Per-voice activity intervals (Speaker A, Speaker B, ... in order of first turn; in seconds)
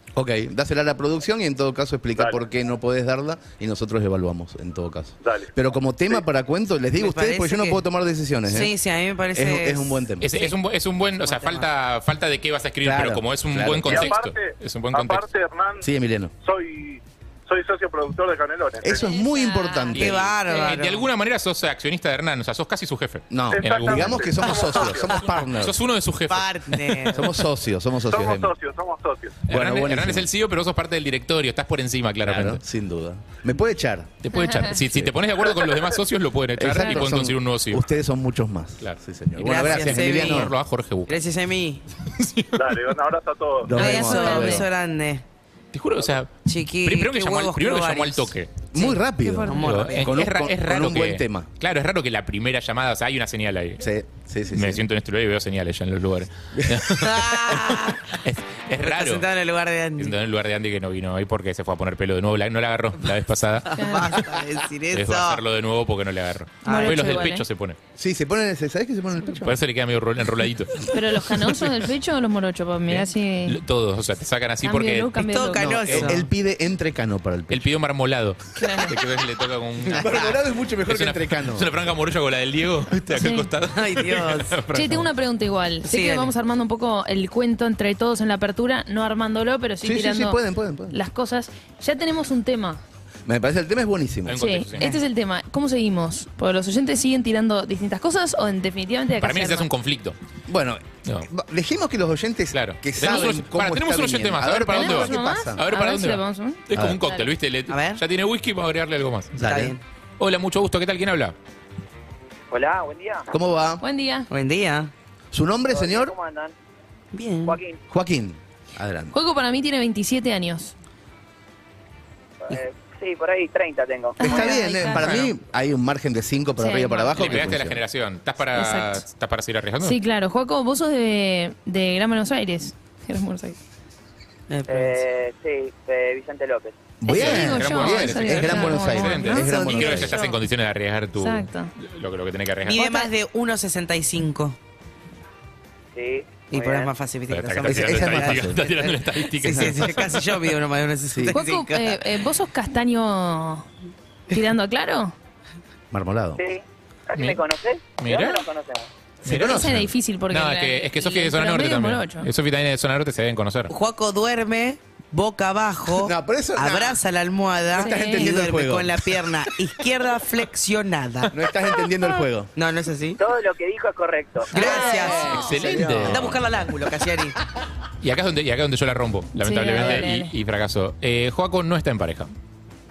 Speaker A: 0.1-8.7, 9.3-10.3, 12.8-14.1, 15.8-16.3, 18.8-20.3, 23.3-25.8, 27.1-28.5, 29.5-30.3, 32.2-34.1, 34.8-35.1, 36.6-40.5, 43.6-44.7, 48.7-51.5, 53.8-54.8, 56.5-57.0, 68.0-69.6, 75.6-77.7, 79.9-81.7, 89.8-91.0, 93.2-94.4, 100.5-105.6, 106.7-107.0, 109.3-109.8, 113.3-113.8, 115.3-116.1, 117.9-119.2, 124.2-127.8, 137.0-140.2, 147.6-148.6, 149.5-149.8, 151.1-151.3, 155.9-156.4, 159.2-159.9, 165.9-167.0, 167.7-169.4, 171.3-172.5, 174.5-176.6
Speaker B: 5.2-5.5, 13.8-15.8, 16.4-18.9, 23.5-25.2, 28.1-29.4, 42.5-43.7
Speaker C: 7.0-7.8, 8.5-10.6, 11.2-11.7, 19.9-21.1, 26.3-27.3, 39.4-40.5, 41.1-41.8, 43.7-45.2, 46.4-50.2, 57.0-58.1, 58.8-60.1, 63.7-65.4, 66.6-67.2, 75.2-76.2, 79.9-80.3, 83.7-84.7, 85.8-86.3, 107.7-108.0, 109.4-109.8, 114.3-114.9, 117.1-117.6, 134.5-135.0, 139.2-140.1, 142.7-144.6, 146.5-152.1, 163.7-171.4, 172.6-173.2, 174.5-175.4, 176.1-177.3
Speaker D: 10.2-15.2, 19.9-24.4, 24.9-27.0, 29.5-32.6, 34.2-37.8, 38.8-41.2, 42.1-42.9, 45.7-48.5, 49.5-53.9, 54.5-59.3, 60.0-64.2, 64.9-67.8, 69.4-70.9, 72.9-75.2, 75.8-76.1, 77.5-80.3, 80.9-85.1, 94.2-94.9, 99.2-100.2, 102.5-109.3, 110.2-111.3, 124.9-125.3, 127.2-130.0, 137.1-143.0, 147.3-150.2, 158.0-158.4, 159.3-163.7, 175.2-176.3, 178.0-182.3
Speaker E: 18.9-20.7, 34.3-34.7, 43.7-44.7, 49.2-49.7, 63.7-64.1, 66.6-67.4, 70.9-73.6, 74.6-75.9, 78.6-78.9, 83.2-83.5, 84.7-92.8, 94.4-99.7, 104.7-107.3, 113.8-114.3, 119.1-120.7, 124.2-125.2, 126.6-127.4, 128.5-129.0, 129.8-133.6, 137.1-140.4, 141.2-141.7, 142.8-143.1, 151.3-153.7, 154.3-155.1, 159.3-162.3, 167.8-168.3, 174.5-175.8, 179.4-180.3
Speaker F: 112.5-113.3, 115.7-116.5, 117.4-117.8, 122.5-124.4, 134.7-136.9, 145.9-146.9, 156.4-158.9, 173.2-174.8